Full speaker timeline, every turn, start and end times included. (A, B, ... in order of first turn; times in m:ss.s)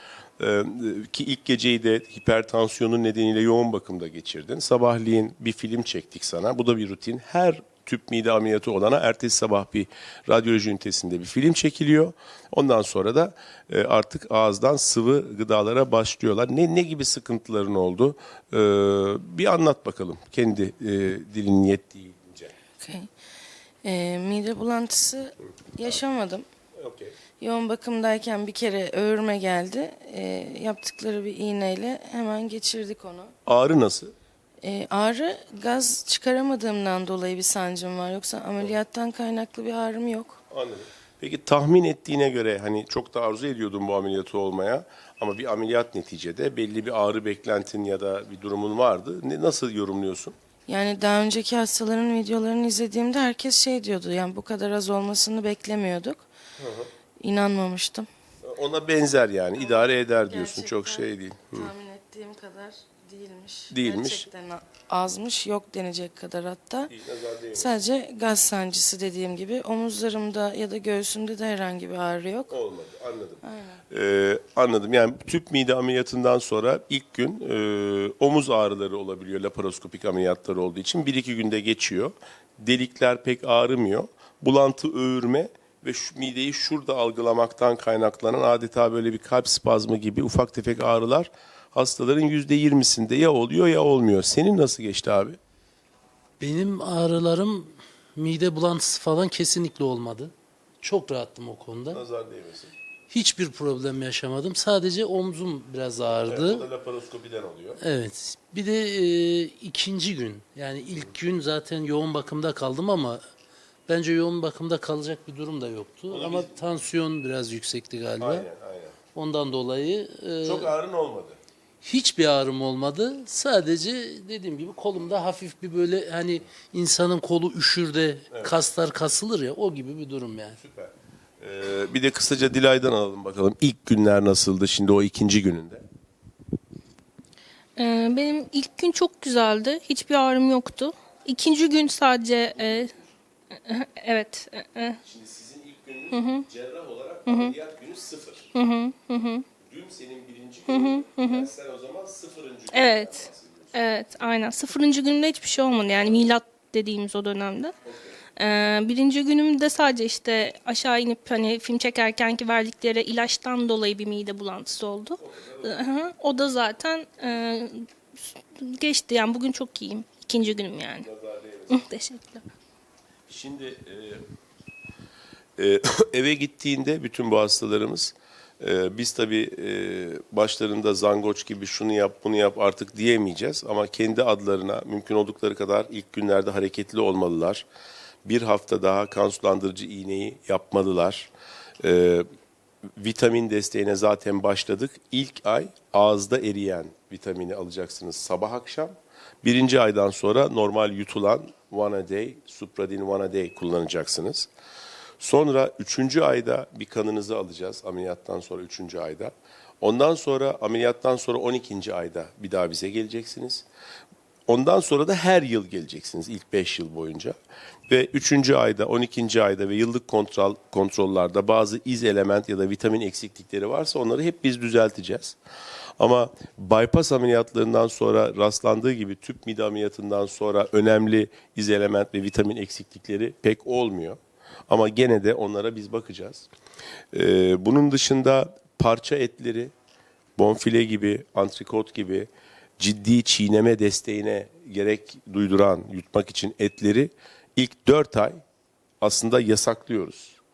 0:00.4-0:22.5 A
0:22.8-0:23.1 B
0:23.8-0:26.4 B
0:26.8-0:27.2 A
0:27.4-0:33.3 B
0:33.4-0:34.1 A
0:34.6-0:40.4 B
0:40.5-0:50.3 A
0:50.7-0:56.3 B
0:56.6-0:56.9 A
0:57.2-0:58.1 B
0:58.4-1:01.7 A
0:59.6-1:06.9 B
1:03.7-1:04.3 A
1:06.9-1:07.8 A
1:07.5-1:12.5 B
1:12.5-1:35.4 A
1:13.4-1:13.8 B
1:36.4-1:42.0 C
1:41.9-1:42.7 A
1:43.1-1:46.7 C
1:46.2-1:47.8 A
1:47.8-1:53.2 C
1:53.9-1:58.4 C
1:56.1-1:56.6 A
1:58.2-1:59.0 A
1:59.1-2:00.7 C
2:00.4-2:01.4 A
2:01.8-2:10.6 C
2:10.6-2:15.8 A
2:17.8-2:22.9 D
2:22.5-2:23.1 A
2:23.6-2:25.0 D
2:25.0-2:28.5 A
2:26.1-2:26.4 D
2:27.3-2:27.5 D
2:28.5-2:29.4 D
2:29.6-2:34.3 A
2:30.7-2:31.5 D
2:32.7-2:37.7 D
2:35.9-2:36.3 A
2:37.8-2:38.2 A
2:38.4-2:51.1 D
2:45.2-2:45.8 A
2:51.0-2:51.8 A
2:51.7-2:52.4 D
2:53.3-2:54.2 A
2:55.6-3:07.6 A
3:08.2-3:12.2 A
3:13.0-3:24.5 A
3:25.2-3:33.6 A
3:34.5-3:37.4 A
3:37.9-3:45.4 A
3:46.0-3:56.5 A
3:57.1-3:59.7 A
4:00.4-4:08.4 A
4:09.0-4:10.4 A